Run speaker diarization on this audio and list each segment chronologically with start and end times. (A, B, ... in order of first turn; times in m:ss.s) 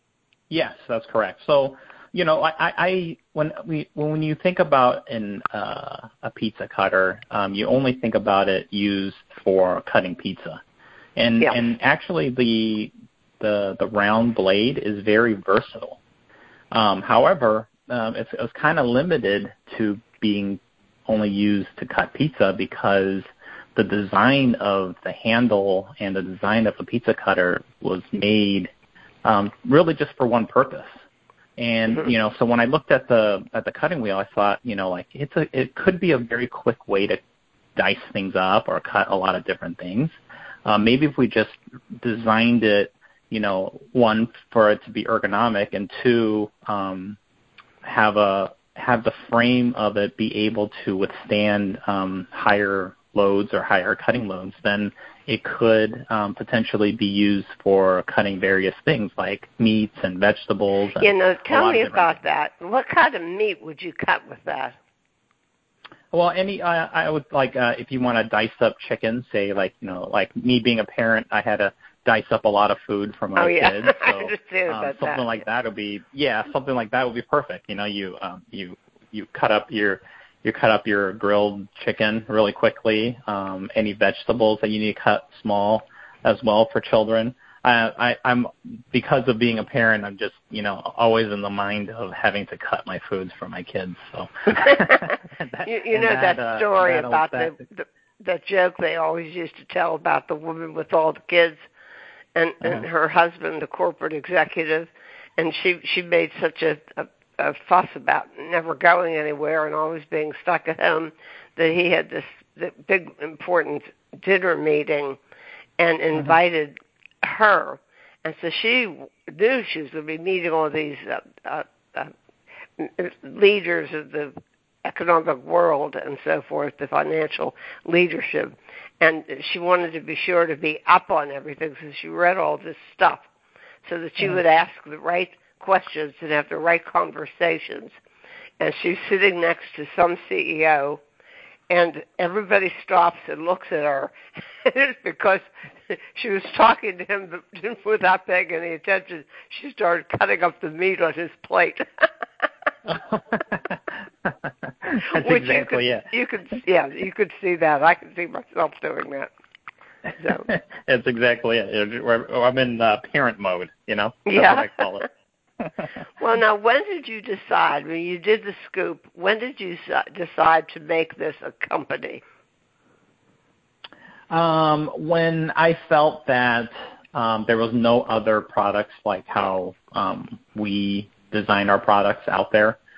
0:00.5-0:10.6 A
0:11.2-0:16.0 A
0:16.7-0:28.7 A
0:29.2-0:30.9 A
0:31.6-0:37.2 A
0:37.8-0:40.2 A
0:40.7-0:47.2 A
0:47.8-1:02.2 A
1:01.0-1:04.8 B
1:06.1-1:37.6 A
1:13.4-1:15.5 B
1:34.6-1:35.1 B
1:35.6-1:41.7 B
1:42.4-1:55.2 B
1:55.8-2:02.1 B
2:02.8-2:13.3 B
2:13.8-2:18.0 B
2:18.6-2:21.0 B
2:21.7-2:32.1 B
2:32.9-2:36.1 A
2:35.1-2:39.3 B
2:40.2-2:40.5 B
2:40.5-2:45.1 A
2:44.3-2:44.9 B
2:46.2-2:52.2 B
2:54.3-3:02.8 A